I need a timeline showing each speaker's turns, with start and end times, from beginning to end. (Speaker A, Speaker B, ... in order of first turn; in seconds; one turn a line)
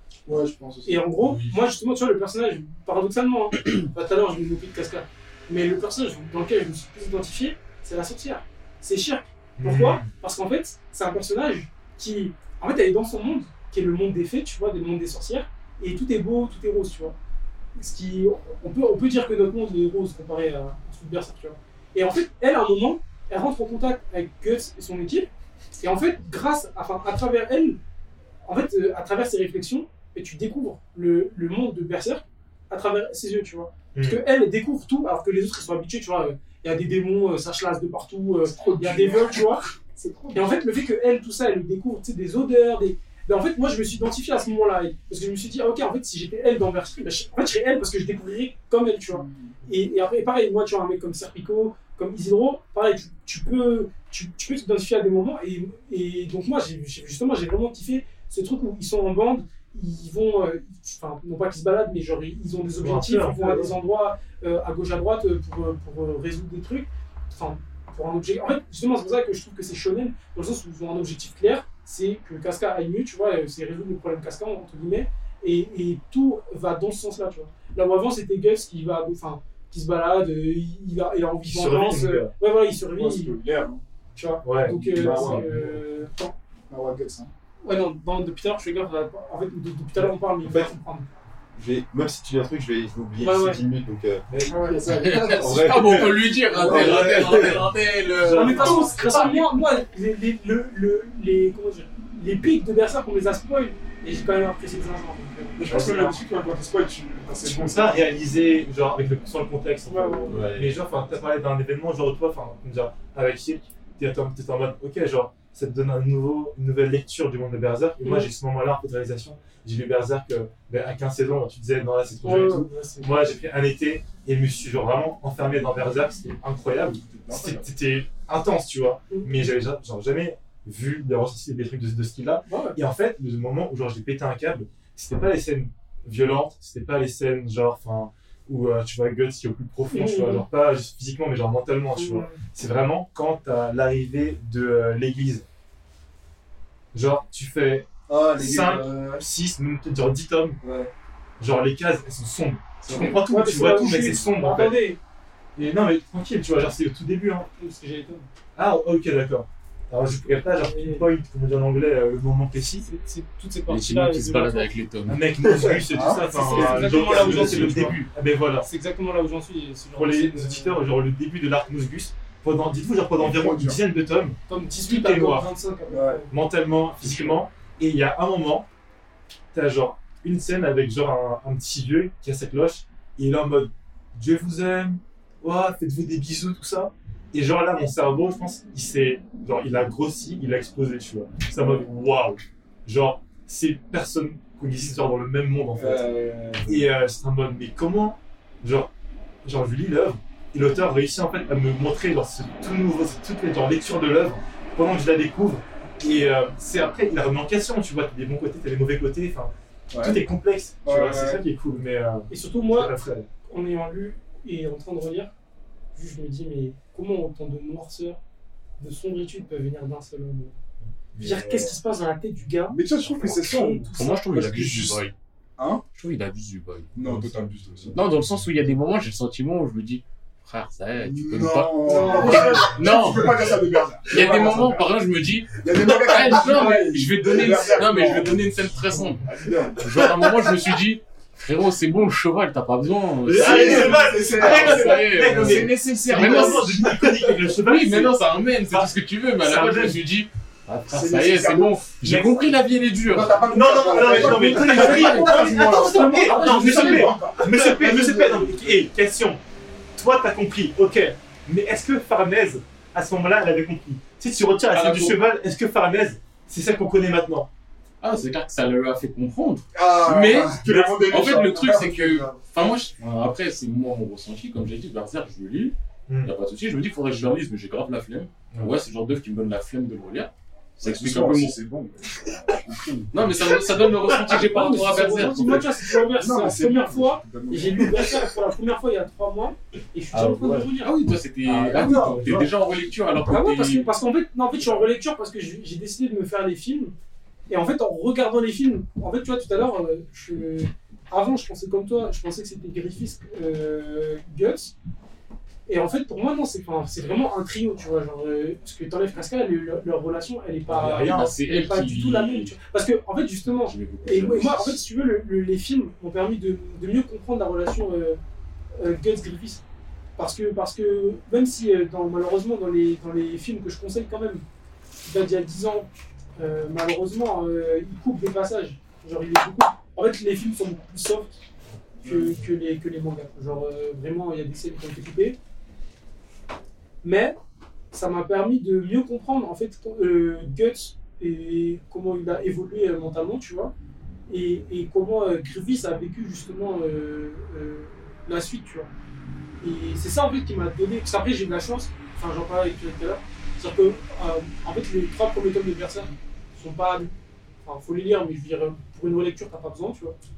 Speaker A: 0.3-1.0
Speaker B: 0.9-17.1
Speaker C: 1.3-1.5
Speaker D: 9.6-10.1
Speaker B: 17.8-25.3
Speaker B: 25.8-27.8
Speaker B: 28.4-39.6
Speaker D: 34.0-34.2
Speaker A: 38.5-40.6
Speaker B: 40.3-83.3
Speaker A: 49.1-49.6
Speaker D: 62.8-63.7
Speaker D: 81.5-82.3
Speaker A: 83.0-83.8
Speaker B: 84.2-86.3
Speaker D: 84.4-85.5
Speaker A: 85.0-85.4
Speaker E: 85.0-85.6
Speaker A: 86.7-87.3
Speaker B: 87.6-91.1
Speaker E: 90.4-90.8
Speaker E: 91.5-94.2
Speaker B: 93.2-93.6
Speaker D: 94.3-94.6
Speaker A: 94.5-95.8
Speaker C: 94.9-99.5
Speaker E: 95.3-97.7
Speaker D: 97.1-97.4
Speaker D: 98.2-99.4
Speaker B: 98.2-106.2
Speaker A: 105.6-108.1
Speaker D: 105.7-106.1
Speaker D: 107.5-145.4
Speaker B: 109.9-110.4
Speaker E: 110.3-110.8
Speaker B: 118.0-118.3
Speaker B: 122.2-123.1
Speaker A: 127.0-127.7
Speaker B: 132.5-132.8
Speaker B: 139.9-140.5
Speaker B: 141.9-142.4
Speaker D: 146.9-150.6
Speaker A: 148.1-149.3
Speaker A: 150.6-150.9
Speaker D: 151.4-154.8
Speaker B: 152.9-155.0
Speaker D: 155.6-157.5
Speaker B: 157.6-158.3
Speaker D: 158.6-162.9
Speaker B: 160.6-161.1
Speaker B: 162.9-164.7
Speaker C: 163.7-165.2
Speaker D: 165.1-168.7
Speaker A: 165.9-167.8
Speaker B: 166.2-168.0
Speaker C: 166.9-168.1
Speaker B: 168.6-170.8
Speaker D: 170.0-175.5
Speaker A: 173.2-173.8
Speaker B: 174.5-176.3
Speaker A: 175.9-176.2
Speaker D: 176.3-178.7
Speaker D: 179.5-196.1
Speaker A: 191.6-191.9
Speaker A: 195.8-196.9
Speaker D: 196.7-198.9
Speaker D: 199.4-213.3
Speaker A: 209.9-210.2
Speaker A: 210.8-211.4
Speaker B: 212.3-212.9
Speaker B: 213.4-215.3
Speaker B: 215.9-218.2
Speaker B: 218.8-220.6
Speaker B: 221.2-224.2
Speaker A: 221.2-221.7
Speaker A: 222.7-225.0
Speaker C: 223.9-225.1
Speaker C: 225.9-233.4
Speaker A: 226.9-228.0
Speaker A: 231.0-234.9
Speaker B: 231.9-232.6
Speaker C: 234.1-239.3
Speaker A: 235.6-238.4
Speaker A: 239.2-239.8
Speaker C: 239.8-246.8
Speaker D: 243.3-250.0
Speaker A: 243.3-246.9
Speaker C: 247.6-253.5
Speaker A: 250.9-251.8
Speaker D: 252.0-252.5
Speaker A: 253.1-258.8
Speaker D: 253.5-259.4
Speaker C: 254.0-255.5
Speaker B: 254.8-257.2
Speaker D: 260.0-267.5
Speaker C: 264.7-265.2
Speaker C: 268.0-281.6
Speaker A: 269.7-272.4
Speaker D: 270.7-271.1
Speaker D: 276.1-276.3
Speaker A: 280.8-283.3
Speaker C: 283.1-285.7
Speaker B: 284.2-290.9
Speaker A: 285.3-288.3
Speaker D: 290.1-290.6
Speaker C: 290.2-293.9
Speaker D: 291.4-292.5
Speaker B: 293.3-296.9
Speaker B: 297.5-304.8
Speaker B: 305.7-318.2
Speaker C: 310.7-312.6
Speaker D: 310.7-311.3
Speaker C: 313.7-314.8
Speaker B: 318.8-319.6
Speaker B: 320.2-324.4
Speaker B: 325.1-331.3
Speaker A: 332.0-332.4
Speaker B: 332.0-335.4
Speaker B: 337.0-337.4
Speaker B: 337.9-343.7
Speaker B: 344.3-348.9
Speaker B: 349.6-357.1
Speaker B: 357.6-360.1